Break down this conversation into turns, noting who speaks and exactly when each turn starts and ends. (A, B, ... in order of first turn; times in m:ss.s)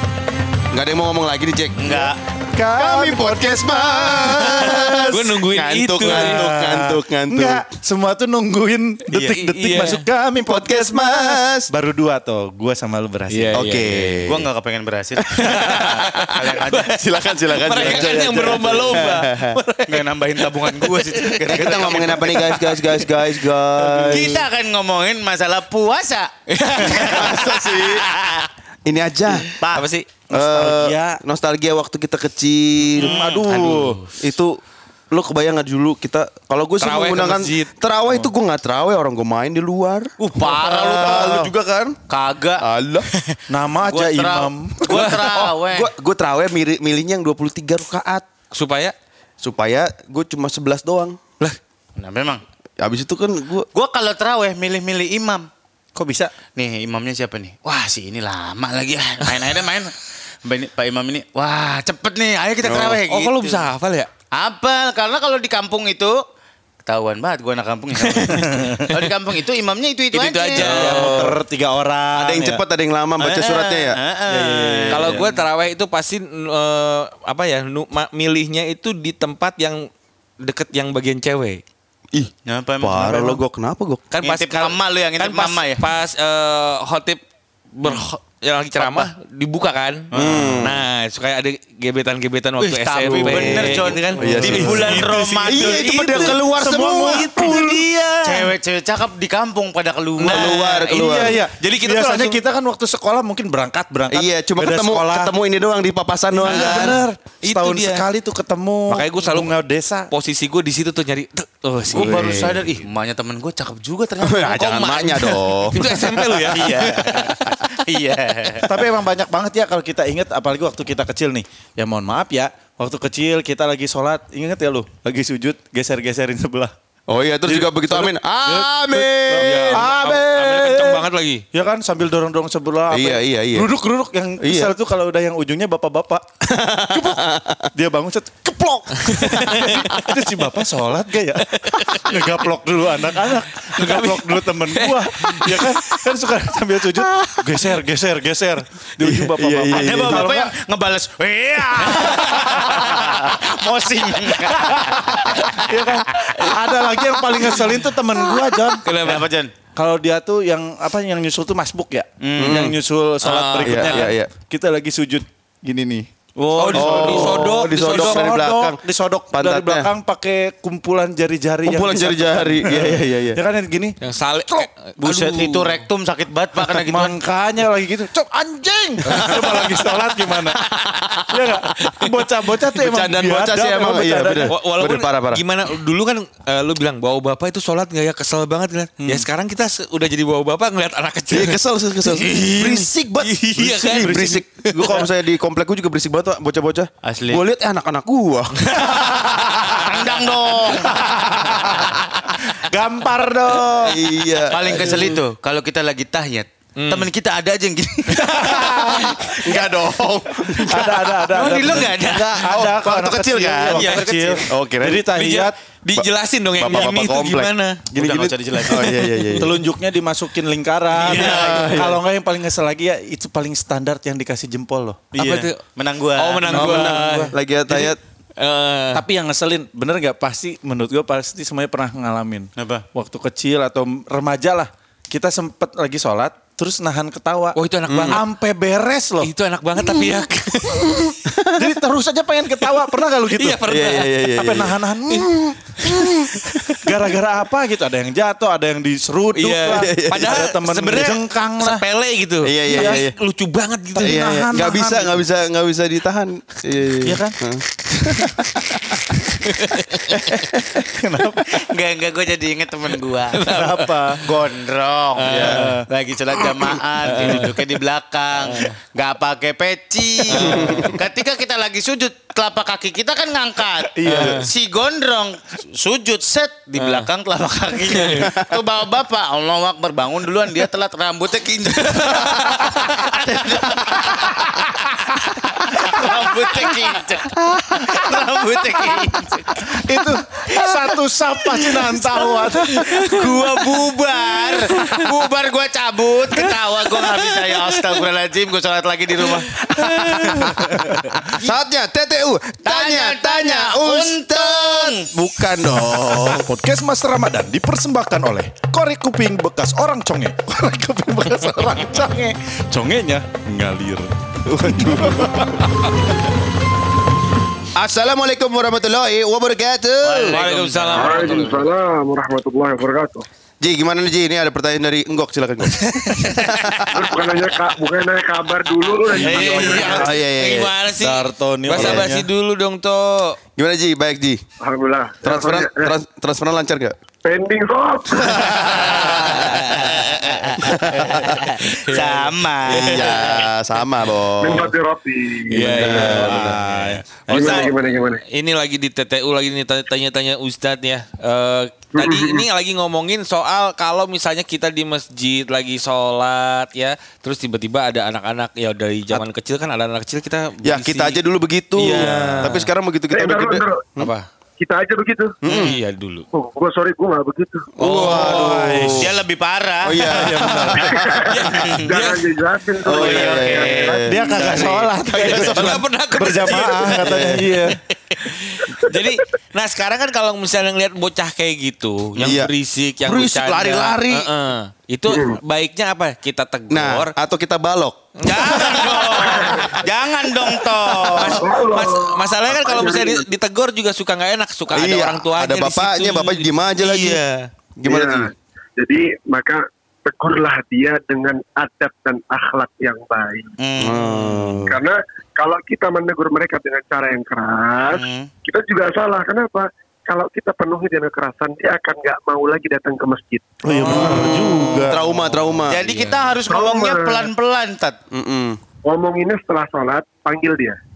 0:00.7-0:02.0 A
0:01.8-0:02.2 B
0:02.5-0:05.3 C
0:02.7-0:07.7 A
0:05.1-0:06.4 D
0:06.0-0:13.6 C
0:09.1-0:10.0 D
0:10.4-0:11.7 A
0:13.3-0:14.4 D
0:13.5-0:14.5 A
0:14.3-0:15.2 B
0:15.2-0:19.6 A
0:15.5-0:16.8 D
0:16.0-0:17.0 B
0:17.5-0:20.1 D
0:17.7-0:18.8 B
0:19.9-0:22.9 B
0:20.6-0:22.5 D
0:21.3-0:24.4 A
0:23.8-0:24.4 C
0:24.1-0:28.5 B
0:26.6-0:27.5 D
0:26.8-0:28.0 A
0:28.8-0:29.5 A
0:29.4-0:29.9 B
0:29.7-0:30.1 D
0:30.3-0:31.2 C
0:30.3-0:34.6 A
0:33.0-0:34.0 C
0:33.7-0:34.1 B
0:35.1-0:42.0 A
0:36.8-0:37.7 D
0:40.2-0:41.5 B
0:42.1-0:42.6 B
0:42.6-0:43.1 A
0:43.5-0:45.2 C
0:43.8-0:45.9 B
0:44.9-0:45.2 D
0:45.1-0:48.3 A
0:48.5-0:49.0 D
0:49.4-0:51.2 A
0:52.0-0:52.4 B
0:52.8-0:53.7 A
0:53.7-0:55.5 B
0:56.0-0:56.3 C
0:56.6-1:03.7 B
0:59.3-0:59.6 D
1:02.6-1:03.0 A
1:03.1-1:04.1 D
1:04.3-1:06.2 B
1:06.9-1:10.8 B
1:08.3-1:08.8 C
1:10.1-1:11.2 D
1:10.6-1:12.6 C
1:10.6-1:11.4 A
1:12.2-1:14.0 A
1:13.2-1:15.3 B
1:14.3-1:15.1 C
1:14.9-1:15.2 A
1:14.9-1:19.9 D
1:20.4-1:21.6 D
1:22.1-1:24.1 A
1:22.4-1:23.4 B
1:24.1-1:27.2 D
1:24.2-1:25.9 B
1:27.7-1:38.5 D
1:28.8-1:29.1 B
1:30.1-1:30.6 B
1:30.1-1:30.8 A
1:32.6-1:36.4 B
1:33.2-1:37.6 A
1:34.4-1:35.0 C
1:36.1-1:38.0 C
1:38.2-1:40.9 B
1:40.2-1:41.4 A
1:40.8-1:45.3 C
1:40.9-1:42.4 D
1:44.1-1:47.0 A
1:46.4-1:50.1 C
1:46.4-1:48.1 D
1:48.9-1:49.6 D
1:50.1-1:52.8 D
1:51.9-1:55.1 B
1:54.2-1:56.6 A
1:54.7-1:57.6 D
1:56.5-1:58.8 B
1:58.6-2:06.7 C
2:07.1-2:09.9 A
2:07.5-2:16.2 C
2:09.4-2:11.4 D
2:12.9-2:13.7 A
2:14.4-2:14.7 A
2:16.4-2:17.6 A
2:16.9-2:30.5 C
2:19.1-2:20.1 D
2:21.5-2:22.4 D
2:23.8-2:26.0 D
2:27.0-2:27.7 D
2:29.0-2:30.3 A
2:29.7-2:37.7 B
2:31.8-2:33.0 C
2:34.2-2:38.8 C
2:38.2-2:39.5 B
2:38.8-2:39.3 D
2:39.8-2:46.1 C
2:42.2-2:42.6 B
2:42.4-2:42.8 A
2:43.2-2:44.1 D
2:43.6-2:44.3 A
2:46.4-2:47.1 B
2:46.6-2:48.3 D
2:46.7-2:54.7 C
2:46.7-2:48.8 A
2:49.3-2:49.9 A
2:51.6-2:53.4 A
2:54.0-2:55.8 D
2:55.0-2:57.2 B
2:56.6-3:00.6 C
2:59.1-2:59.6 D
3:01.0-3:01.2 B
3:01.3-3:04.5 C
3:02.8-3:05.4 A
3:04.5-3:15.0 D
3:09.0-3:09.3 C
3:11.3-3:18.9 A
3:14.0-3:14.3 C
3:17.0-3:17.4 B
3:18.8-3:19.8 C
3:19.6-3:20.9 B
3:20.6-3:24.2 C
3:23.8-3:25.1 A
3:24.5-3:29.3 B
3:26.8-3:27.1 D
3:28.4-3:31.0 A
3:28.4-3:29.1 C
3:28.4-3:29.1 D
3:30.6-3:35.6 C
3:31.1-3:32.5 B
3:32.4-3:34.0 A
3:33.7-3:34.4 D
3:34.5-3:35.1 A
3:35.1-3:37.9 D
3:35.9-3:39.6 A
3:37.9-3:39.0 B
3:39.3-3:45.2 C
3:41.0-3:41.8 B
3:41.0-3:42.0 A
3:45.1-3:47.3 B
3:45.2-3:45.6 D
3:46.2-3:49.0 D
3:46.5-3:48.0 A
3:48.9-3:59.3 C
3:52.6-3:52.8 B
3:57.6-3:58.3 D
3:57.9-3:58.2 A
3:59.2-4:01.1 D
3:59.8-4:00.2 A
4:01.3-4:01.6 A
4:01.5-4:03.6 C
4:03.3-4:04.2 D
4:03.7-4:06.9 A
4:04.2-4:06.1 C
4:06.8-4:11.8 C
4:09.4-4:14.2 D
4:09.6-4:10.4 A
4:12.4-4:13.2 A
4:12.7-4:13.0 C
4:14.0-4:15.2 C
4:14.0-4:18.6 A
4:17.0-4:17.4 C
4:19.6-4:20.0 D
4:20.9-4:21.5 C
4:21.5-4:23.5 B
4:23.3-4:24.2 D
4:23.5-4:24.2 C
4:24.2-4:44.5 B
4:25.2-4:25.7 D
4:25.2-4:25.7 A
4:25.4-4:25.8 C
4:27.2-4:27.6 D
4:30.3-4:30.9 D
4:30.4-4:30.9 A
4:34.0-4:34.3 A
4:34.0-4:34.4 C
4:34.1-4:34.4 D
4:36.8-4:37.1 D
4:37.9-4:38.3 D
4:38.1-4:38.5 A
4:42.0-4:42.6 D
4:44.3-4:44.6 C
4:45.3-4:46.7 C
4:45.6-4:50.1 B
4:47.5-4:47.9 C
4:49.6-4:53.5 C
4:51.7-5:00.6 B
4:52.9-4:53.2 D
4:57.5-4:57.9 D
4:59.2-5:00.5 D
5:00.2-5:01.2 C
5:01.4-5:06.4 A
5:02.6-5:05.1 B
5:05.8-5:14.1 C
5:14.5-5:15.5 A
5:14.6-5:15.6 C
5:17.8-5:20.4 A
5:20.0-5:21.5 B
5:20.3-5:21.7 D
5:20.9-5:23.2 E
5:23.6-5:27.0 A
5:26.2-5:27.0 B
5:26.9-5:30.2 E
5:29.1-5:33.4 D
5:29.2-5:29.9 B
5:29.7-5:30.7 A
5:31.0-5:32.3 C
5:31.7-5:32.1 A
5:33.6-5:34.4 A
5:34.6-5:35.9 E
5:35.2-5:36.9 A
5:37.2-5:38.8 E
5:38.2-5:38.9 A
5:38.4-5:43.4 B
5:39.1-5:40.3 D
5:40.6-5:41.5 A
5:41.7-5:43.1 D
5:42.7-5:44.7 A
5:44.4-5:46.4 E
5:45.5-5:47.7 C
5:45.6-6:01.2 D
5:45.7-5:46.6 A
5:47.3-5:48.2 E
5:52.0-5:52.4 E
6:00.6-6:04.1 A
6:01.8-6:02.7 D
6:03.1-6:03.9 E
6:04.0-6:04.3 D
6:04.6-6:05.4 E
6:05.4-6:05.7 A
6:05.5-6:05.8 B
6:05.5-6:06.3 D
6:06.3-6:07.7 E
6:07.8-6:09.2 A
6:07.8-6:09.2 C
6:07.8-6:08.4 D
6:08.9-6:10.1 B
6:09.8-6:11.4 A
6:10.0-6:11.4 C
6:10.7-6:14.7 E
6:11.3-6:12.3 D
6:11.6-6:11.9 B
6:12.8-6:15.8 A
6:12.9-6:14.0 B
6:14.0-6:17.8 C
6:15.1-6:17.2 D
6:16.8-6:17.5 A
6:18.2-6:27.1 D
6:22.2-6:24.3 A
6:25.1-6:25.4 E
6:26.7-6:28.9 A
6:28.2-6:29.7 D
6:28.4-6:31.5 B
6:29.0-6:29.9 E
6:31.0-6:37.3 D
6:31.1-6:33.3 E
6:34.7-6:37.2 A
6:37.8-6:38.3 A
6:37.8-6:43.5 E
6:43.6-6:44.0 B
6:43.8-6:44.8 A
6:44.7-6:53.5 E
6:47.9-6:48.3 B
6:53.6-6:55.0 C
6:53.8-6:54.3 D
6:53.8-6:55.9 A
6:55.7-6:58.0 B
6:56.4-6:57.3 E
6:58.1-6:58.6 A
6:58.9-7:00.8 E